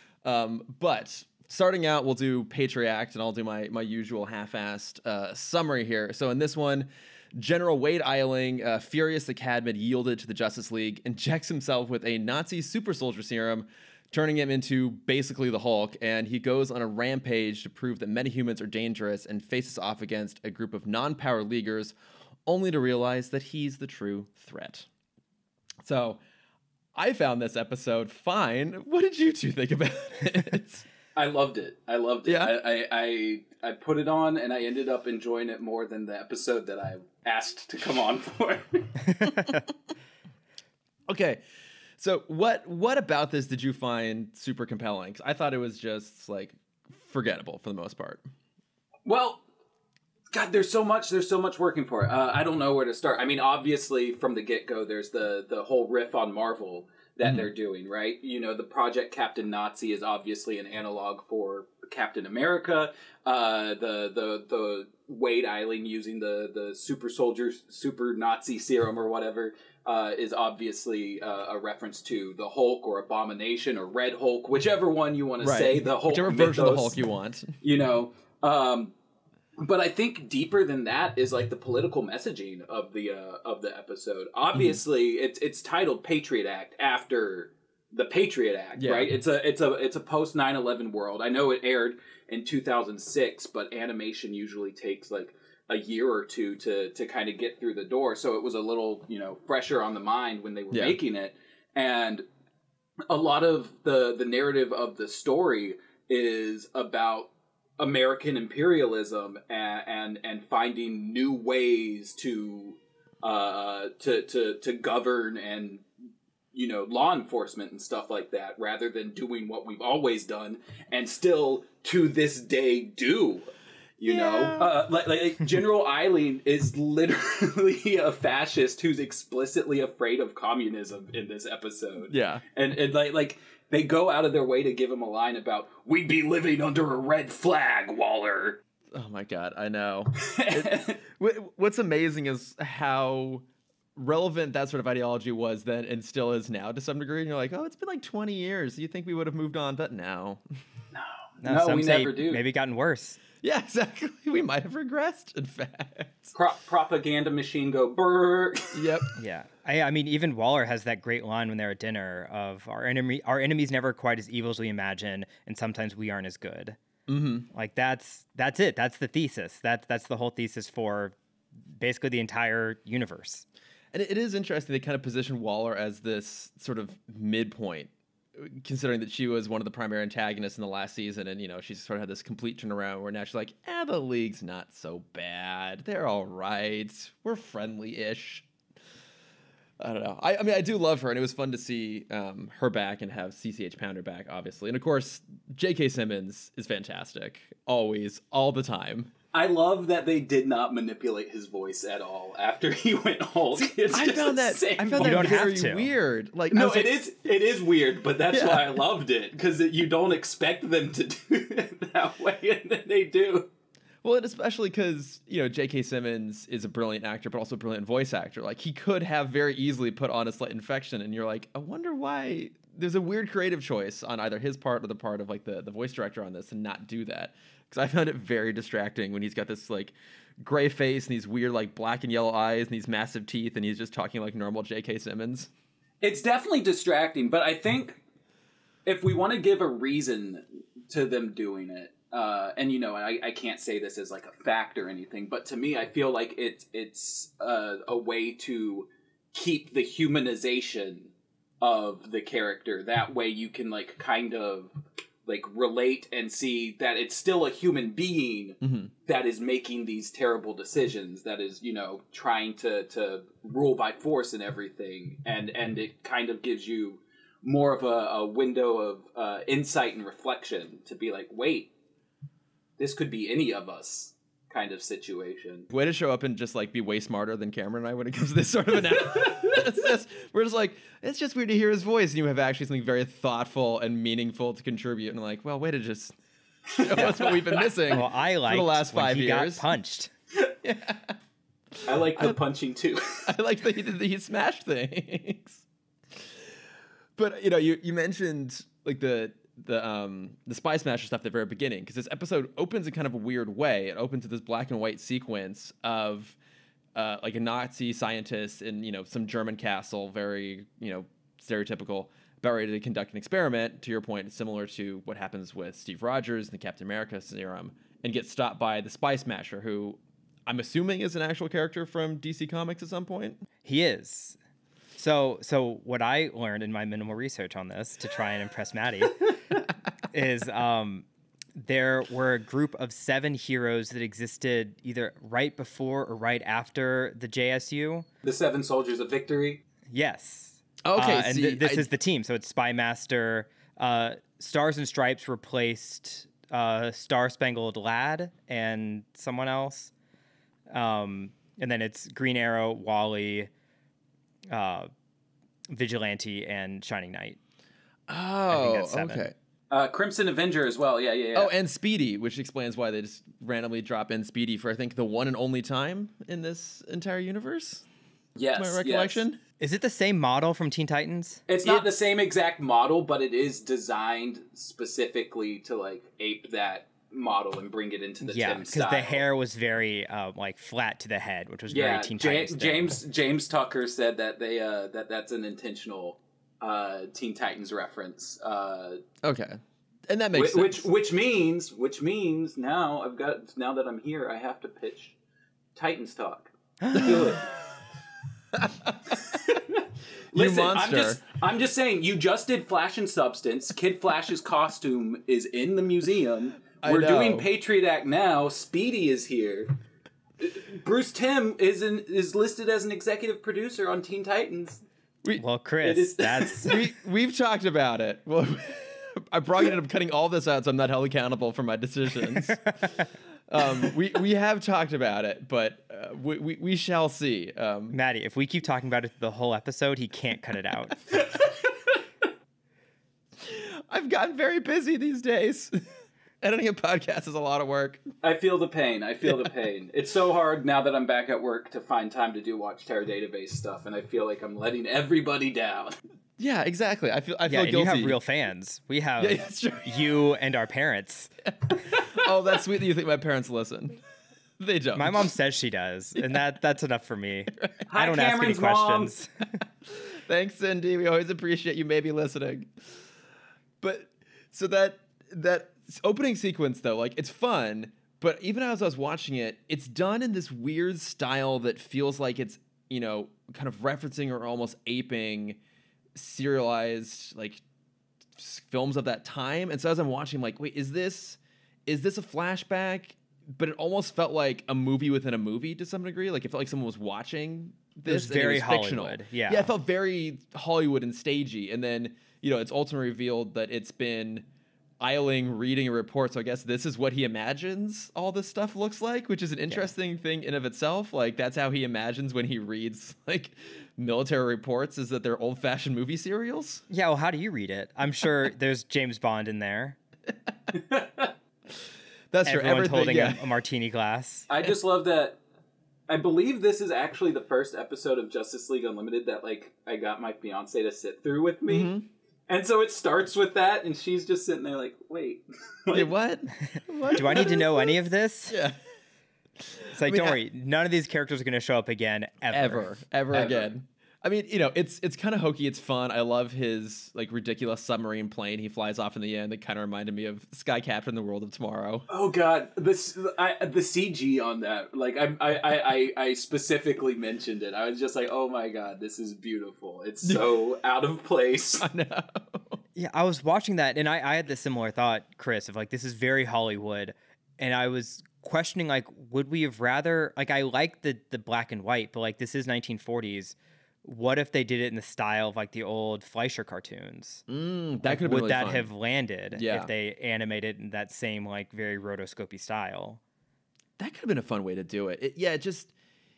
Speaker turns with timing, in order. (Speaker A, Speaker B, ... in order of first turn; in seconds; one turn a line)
Speaker A: 0.2-21.9
Speaker A: 22.4-24.9
Speaker A: 25.8-26.2
Speaker A: 26.9-30.9
Speaker B: 31.2-39.2
Speaker A: 32.2-32.5
Speaker C: 39.2-39.6
Speaker A: 41.1-41.4
Speaker A: 42.0-48.2
Speaker B: 49.1-49.4
Speaker B: 50.3-77.0
Speaker A: 57.2-57.5
Speaker A: 75.4-77.6
Speaker B: 77.6-78.9
Speaker B: 79.6-102.2
Speaker A: 84.5-84.8
Speaker A: 88.8-89.1
Speaker A: 100.7-101.0
Speaker B: 103.1-115.8
Speaker B: 116.5-138.6
Speaker A: 124.0-124.8
Speaker A: 132.1-132.4
Speaker A: 138.9-150.4
Speaker B: 140.2-141.0
Speaker B: 150.9-152.4
Speaker C: 151.4-153.2
Speaker A: 153.4-156.3
Speaker B: 156.3-158.9
Speaker A: 158.7-159.1
Speaker C: 159.2-166.8
Speaker A: 167.1-167.5
Speaker C: 167.5-171.2
Speaker C: 171.7-173.4
Speaker A: 173.9-188.5
Speaker A: 189.8-199.1
Speaker B: 199.3-205.4
Speaker A: 203.6-207.0
Speaker C: 205.0-205.9
Speaker B: 206.5-213.5
Speaker A: 208.3-208.8
Speaker A: 214.0-235.5
Speaker B: 236.0-238.0
Speaker B: 238.9-254.7
Speaker B: 255.2-271.7
Speaker A: 258.6-258.9
Speaker B: 272.8-275.7
Speaker A: 275.7-286.1
Speaker B: 286.8-287.9
Speaker A: 286.8-289.7
Speaker C: 287.9-290.1
Speaker A: 290.6-291.2
Speaker A: 291.8-292.4
Speaker B: 291.9-293.3
Speaker A: 293.2-296.6
Speaker A: 297.1-306.4
Speaker A: 306.9-323.4
Speaker C: 323.6-324.4
Speaker C: 325.0-329.3
Speaker C: 330.1-338.1
Speaker B: 338.2-339.6
Speaker C: 339.9-349.9
Speaker A: 340.8-341.9
Speaker C: 350.7-353.5
Speaker C: 354.5-354.9
Speaker C: 355.7-357.4
Speaker A: 358.1-359.3
Speaker C: 358.5-359.3
Speaker B: 359.7-361.5
Speaker A: 361.3-367.9
Speaker B: 368.4-369.2
Speaker A: 368.6-369.4
Speaker C: 369.6-371.8
Speaker B: 371.5-379.2
Speaker C: 378.2-383.0
Speaker B: 381.7-389.0
Speaker A: 389.2-390.9
Speaker B: 390.3-395.1
Speaker B: 395.8-397.6
Speaker C: 396.8-397.3
Speaker A: 396.9-397.4
Speaker A: 398.5-399.1
Speaker B: 399.1-409.7
Speaker A: 400.3-401.2
Speaker A: 406.8-407.5
Speaker B: 410.4-414.8
Speaker C: 415.4-416.8
Speaker B: 415.8-416.8
Speaker A: 416.6-422.7
Speaker C: 422.5-423.0
Speaker A: 423.5-428.0
Speaker C: 427.9-431.0
Speaker B: 431.1-432.0
Speaker A: 433.4-435.8
Speaker A: 436.4-438.1
Speaker B: 438.2-446.0
Speaker A: 446.4-448.2
Speaker C: 447.5-451.3
Speaker A: 449.2-450.1
Speaker A: 451.5-454.0
Speaker A: 454.6-455.3
Speaker C: 454.9-459.5
Speaker A: 456.2-456.4
Speaker A: 457.5-457.8
Speaker B: 457.9-459.1
Speaker A: 459.9-463.1
Speaker A: 463.8-475.6
Speaker A: 476.1-477.6
Speaker A: 478.4-494.5
Speaker C: 488.1-489.7
Speaker A: 495.0-506.9
Speaker C: 506.9-510.0
Speaker B: 510.7-511.3
Speaker A: 512.3-513.5
Speaker C: 512.5-514.5
Speaker B: 514.5-515.4
Speaker B: 516.1-521.9
Speaker A: 521.6-522.1
Speaker B: 522.5-526.1
Speaker A: 525.9-528.0
Speaker C: 526.7-528.5
Speaker A: 528.5-528.8
Speaker A: 529.6-530.4
Speaker C: 529.9-532.9
Speaker A: 532.5-542.1
Speaker B: 533.3-533.7
Speaker B: 542.1-551.9
Speaker A: 550.2-550.5
Speaker A: 551.8-552.8
Speaker C: 553.0-567.4
Speaker A: 567.5-568.9
Speaker C: 568.0-573.2
Speaker A: 569.5-569.9
Speaker A: 574.0-575.9